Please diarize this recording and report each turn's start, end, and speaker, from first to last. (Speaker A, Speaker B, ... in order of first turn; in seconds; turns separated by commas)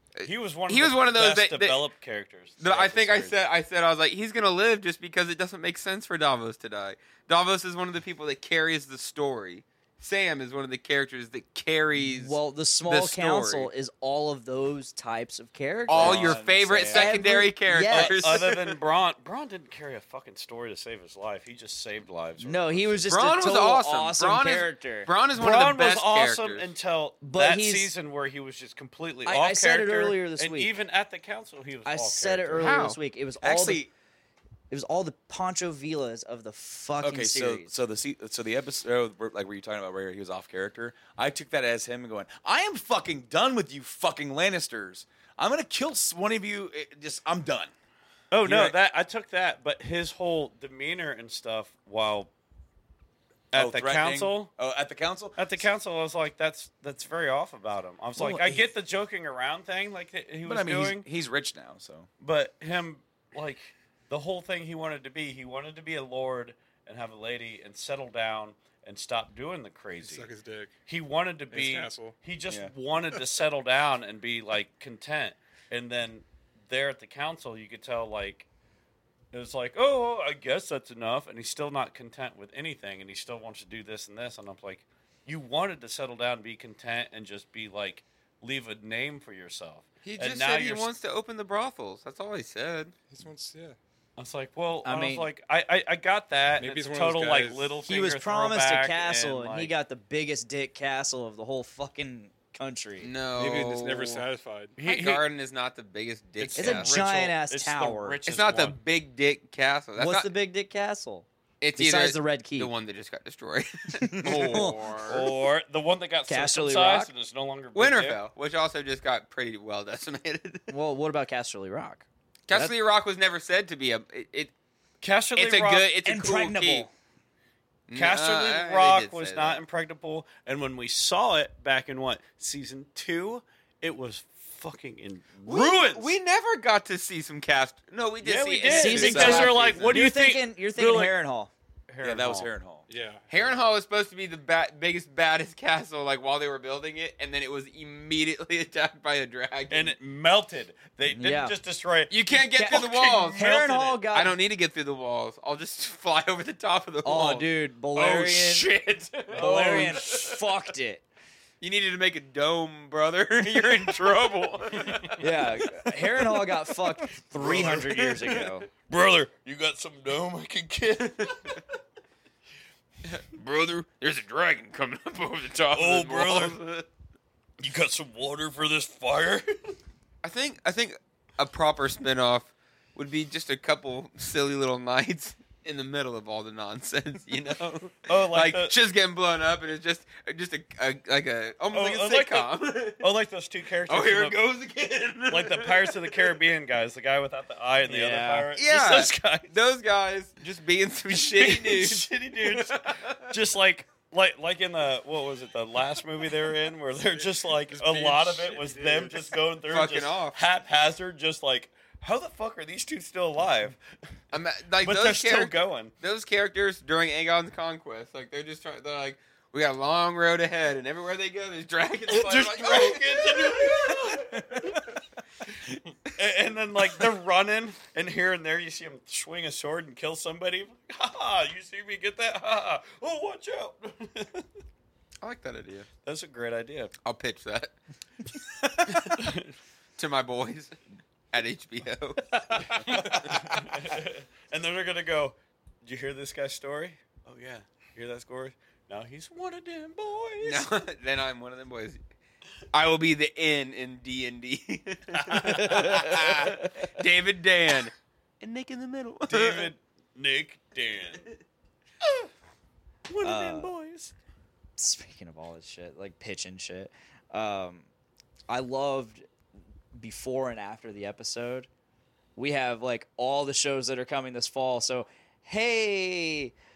Speaker A: 0.2-1.8, Speaker B: 0.2-3.4, Speaker A: 2.6-13.7, Speaker C: 11.9-18.4, Speaker A: 15.9-18.7, Speaker D: 15.9-17.1, Speaker B: 17.9-23.0, Speaker C: 22.4-25.1, Speaker A: 23.1-26.7, Speaker B: 25.3-32.7, Speaker C: 27.2-27.9, Speaker C: 29.2-30.7, Speaker C: 31.9-33.8, Speaker A: 32.6-33.0, Speaker D: 33.4-33.9, Speaker C: 34.7-37.7, Speaker D: 37.0-47.7, Speaker B: 48.3-52.3, Speaker D: 48.4-48.8, Speaker B: 53.5-54.5, Speaker D: 53.5-55.5, Speaker B: 55.4-61.0, Speaker D: 58.1-58.6, Speaker D: 60.4-62.1, Speaker B: 62.2-70.3, Speaker E: 70.0-70.7, Speaker B: 70.9-78.5, Speaker E: 71.5-72.2, Speaker B: 79.3-90.9, Speaker A: 90.0-92.9, Speaker E: 93.1-93.8, Speaker B: 94.2-99.7, Speaker C: 94.8-95.3, Speaker E: 96.6-97.8, Speaker C: 97.8-103.1, Speaker A: 103.0-104.2, Speaker E: 103.3-104.8, Speaker B: 104.8-105.2, Speaker A: 104.8-107.0, Speaker B: 106.4-108.8, Speaker C: 106.5-108.2, Speaker A: 108.2-110.3, Speaker C: 110.0-112.7, Speaker A: 111.6-115.3, Speaker C: 114.0-114.8, Speaker B: 114.3-118.2, Speaker C: 116.3-117.1, Speaker A: 117.7-120.7, Speaker C: 120.7-122.7, Speaker A: 122.5-124.5, Speaker B: 125.0-125.9, Speaker A: 125.3-126.9, Speaker C: 126.0-126.9, Speaker A: 127.9-129.6, Speaker B: 127.9-136.1, Speaker A: 135.4-140.0, Speaker B: 138.2-141.1, Speaker C: 138.7-141.5, Speaker D: 139.1-139.5, Speaker B: 141.9-142.5, Speaker D: 142.0-142.8, Speaker E: 142.9-143.8, Speaker A: 143.3-149.9, Speaker B: 149.7-153.7, Speaker C: 151.1-151.5, Speaker A: 152.1-160.4, Speaker C: 152.5-154.3, Speaker C: 157.0-158.7, Speaker C: 159.3-161.0, Speaker B: 159.3-160.0, Speaker A: 161.6-165.4, Speaker C: 165.2-168.7, Speaker B: 167.3-171.6, Speaker A: 167.4-168.4, Speaker A: 173.0-176.8, Speaker B: 175.7-176.6, Speaker B: 177.6-179.8, Speaker A: 180.2-193.1, Speaker B: 188.0-188.7, Speaker B: 191.7-194.4, Speaker A: 193.9-196.4, Speaker B: 195.3-199.5, Speaker C: 197.8-198.5, Speaker A: 198.5-203.3, Speaker B: 201.1-213.8, Speaker E: 207.2-209.4, Speaker A: 209.7-210.4, Speaker A: 214.3-224.6, Speaker B: 214.8-215.9, Speaker B: 222.1-224.8, Speaker B: 226.1-234.5, Speaker A: 235.2-235.9, Speaker B: 236.0-236.9, Speaker A: 237.0-237.7, Speaker A: 238.8-239.3, Speaker B: 239.0-239.5, Speaker A: 240.0-240.8, Speaker A: 241.3-243.7, Speaker B: 242.5-250.7, Speaker A: 250.4-252.0, Speaker A: 252.7-259.7, Speaker C: 255.3-256.3, Speaker B: 259.3-261.3, Speaker B: 262.0-262.3, Speaker B: 263.1-264.1, Speaker C: 263.2-263.7, Speaker C: 264.8-267.9, Speaker C: 268.5-269.3, Speaker C: 269.9-271.7, Speaker C: 272.4-276.5